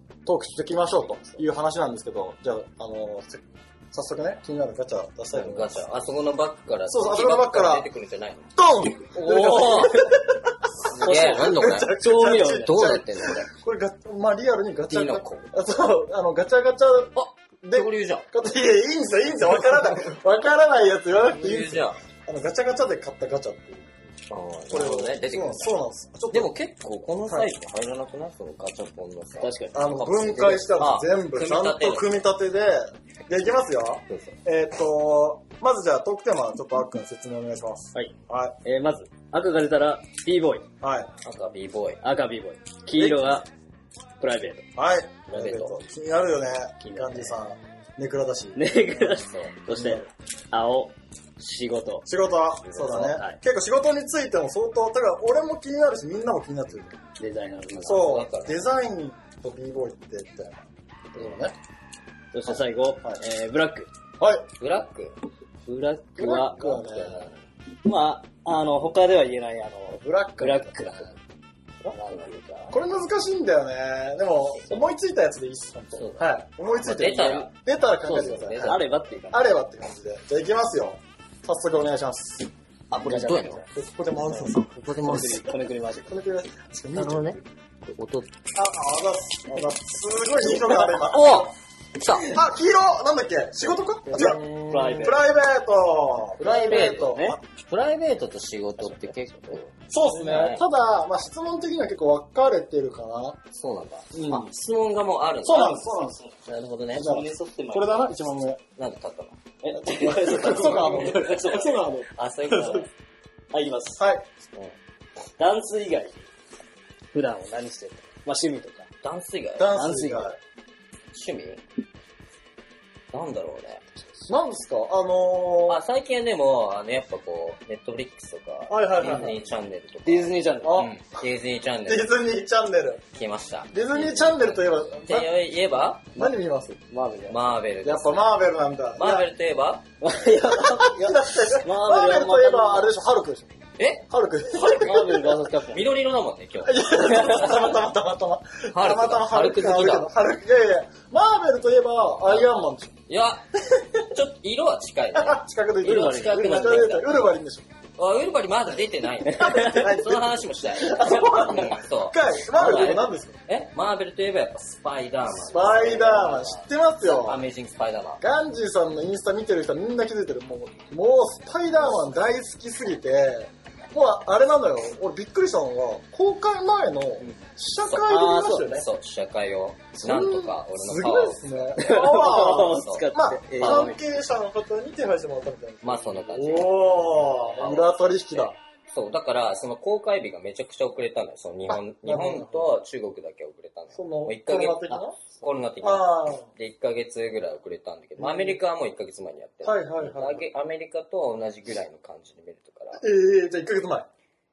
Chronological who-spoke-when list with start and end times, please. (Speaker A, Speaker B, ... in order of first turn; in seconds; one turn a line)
Speaker A: 0.3-5.8
Speaker B: 5.3-8.5
Speaker A: 6.9-7.9
Speaker A: 8.6-24.0
Speaker B: 9.1-10.1
Speaker B: 10.9-12.0
Speaker C: 11.1-12.9
Speaker B: 12.5-13.5
Speaker B: 14.9-15.6
Speaker B: 17.1-18.3
Speaker B: 21.3-22.0
Speaker B: 24.3-25.8
Speaker A: 24.7-26.5
Speaker B: 26.3-32.2
Speaker C: 29.4-30.6
Speaker A: 29.7-38.6
Speaker B: 34.1-34.4
Speaker C: 37.9-40.7
Speaker A: 40.8-41.1
Speaker B: 41.2-42.0
Speaker C: 42.0-43.5
Speaker A: 42.9-43.4
Speaker C: 44.2-44.7
Speaker A: 44.8-50.1
Speaker B: 45.3-45.8
Speaker C: 46.8-47.4
Speaker C: 48.6-52.1
Speaker B: 49.3-49.6
Speaker A: 52.1-57.0
Speaker B: 52.6-53.1
Speaker C: 52.8-53.4
Speaker C: 57.2-58.2
Speaker B: 57.7-58.6
Speaker A: 57.9-61.5
Speaker C: 62.3-63.9
Speaker A: 62.5-63.2
Speaker A: 64.2-64.5
Speaker B: 64.6-65.1
Speaker C: 65.7-66.8
Speaker A: 66.2-67.3
Speaker B: 66.6-67.4
Speaker C: 67.8-71.2
Speaker A: 69.9-71.1
Speaker C: 71.9-72.8
Speaker A: 72.7-82.5
Speaker B: 76.0-77.5
Speaker C: 78.1-79.5
Speaker B: 78.1-78.8
Speaker B: 82.9-83.6
Speaker C: 82.9-83.7
Speaker A: 83.7-85.5
Speaker C: 84.3-86.1
Speaker B: 84.7-85.4
Speaker A: 86.1-87.5
Speaker B: 87.0-88.3
Speaker A: 88.5-91.5
Speaker B: 90.9-92.4
Speaker A: 92.2-97.4
Speaker C: 94.1-95.2
Speaker B: 96.4-100.7
Speaker C: 96.7-97.4
Speaker C: 98.8-99.1
Speaker A: 99.9-103.4
Speaker B: 103.5-107.2
Speaker A: 104.1-104.5
Speaker A: 105.4-106.3
Speaker A: 107.0-108.6
Speaker C: 107.0-108.1
Speaker B: 108.8-109.4
Speaker C: 109.6-111.9
Speaker A: 109.8-112.9
Speaker B: 110.3-112.9
Speaker C: 113.5-114.0
Speaker A: 114.0-114.3
Speaker C: 115.4-116.2
Speaker C: 117.1-118.9
Speaker B: 119.0-119.8
Speaker A: 119.6-120.4
Speaker C: 119.7-120.3
Speaker B: 121.1-121.6
Speaker B: 123.1-123.8
Speaker A: 124.3-125.8
Speaker B: 125.7-132.1
Speaker A: 128.7-129.3
Speaker C: 130.1-130.9
Speaker A: 130.6-130.9
Speaker A: 131.9-133.0
Speaker B: 133.1-136.1
Speaker A: 133.7-135.3
Speaker A: 136.1-136.8
Speaker C: 136.9-137.5
Speaker B: 137.3-138.3
Speaker A: 137.8-139.3
Speaker B: 139.0-139.9
Speaker C: 140.0-143.0
Speaker A: 140.5-145.4
Speaker B: 143.8-144.1
Speaker B: 144.6-145.1
Speaker C: 144.6-145.9
Speaker B: 145.6-147.6
Speaker A: 146.6-153.0
Speaker C: 147.1-147.6
Speaker B: 148.7-150.1
Speaker B: 153.1-157.3
Speaker A: 155.1-157.7
Speaker C: 155.8-157.0
Speaker B: 158.0-166.4
Speaker C: 159.4-159.8
Speaker A: 159.4-163.4
Speaker A: 165.4-167.4
Speaker C: 165.8-166.6
Speaker B: 167.0-168.2
Speaker A: 168.2-178.9
Speaker B: 177.2-178.1
Speaker C: 178.1-178.8
Speaker B: 178.7-183.9
Speaker A: 179.9-188.6
Speaker C: 181.8-184.0
Speaker B: 185.8-203.0
Speaker A: 191.7-192.7
Speaker A: 193.9-196.5
Speaker A: 198.2-198.6
Speaker A: 199.6-200.4
Speaker A: 203.0-204.1